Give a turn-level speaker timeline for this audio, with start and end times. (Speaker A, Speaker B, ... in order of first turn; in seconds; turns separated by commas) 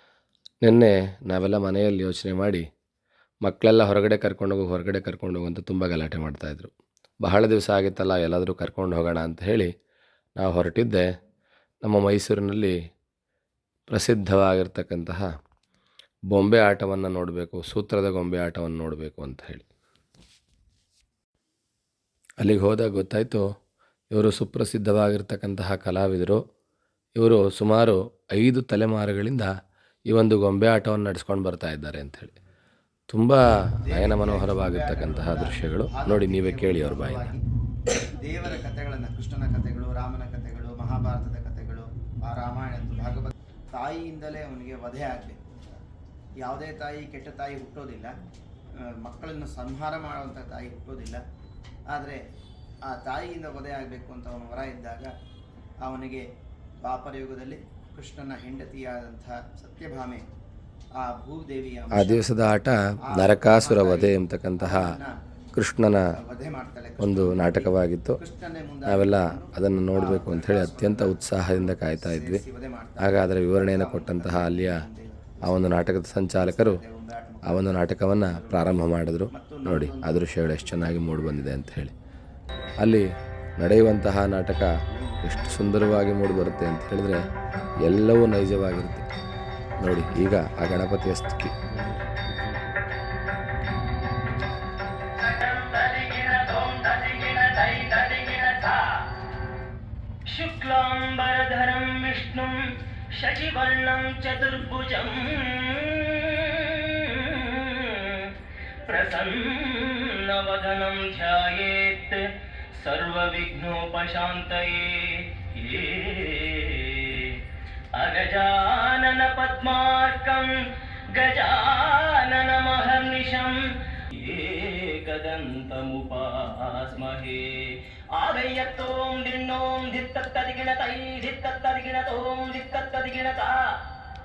Speaker A: 0.6-2.7, Speaker A: 3.4-6.7, Speaker A: 7.2-9.7, Speaker A: 10.4-11.1, Speaker A: 11.8-12.8, Speaker A: 13.9-15.3, Speaker A: 16.3-19.6, Speaker A: 22.4-23.4, Speaker A: 24.1-26.4, Speaker A: 27.2-29.5, Speaker A: 30.1-32.3, Speaker A: 33.1-37.3, Speaker B: 33.8-37.4, Speaker B: 37.9-45.4, Speaker B: 46.4-48.1, Speaker B: 48.8-51.2, Speaker B: 51.9-52.2, Speaker B: 52.8-55.1, Speaker B: 55.8-56.2, Speaker B: 56.8-60.2, Speaker B: 61.0-62.3, Speaker A: 61.9-64.9, Speaker B: 63.0-65.2, Speaker A: 65.5-66.0, Speaker B: 66.2-75.8, Speaker A: 67.0-68.2, Speaker A: 68.9-72.4, Speaker A: 73.0-74.8, Speaker A: 75.4-76.8, Speaker B: 76.4-78.7, Speaker A: 77.5-81.9, Speaker B: 79.3-80.2, Speaker A: 82.8-83.1, Speaker A: 83.6-87.2, Speaker A: 87.8-89.0, Speaker A: 89.8-91.5, Speaker C: 95.2-99.1, Speaker C: 100.3-133.9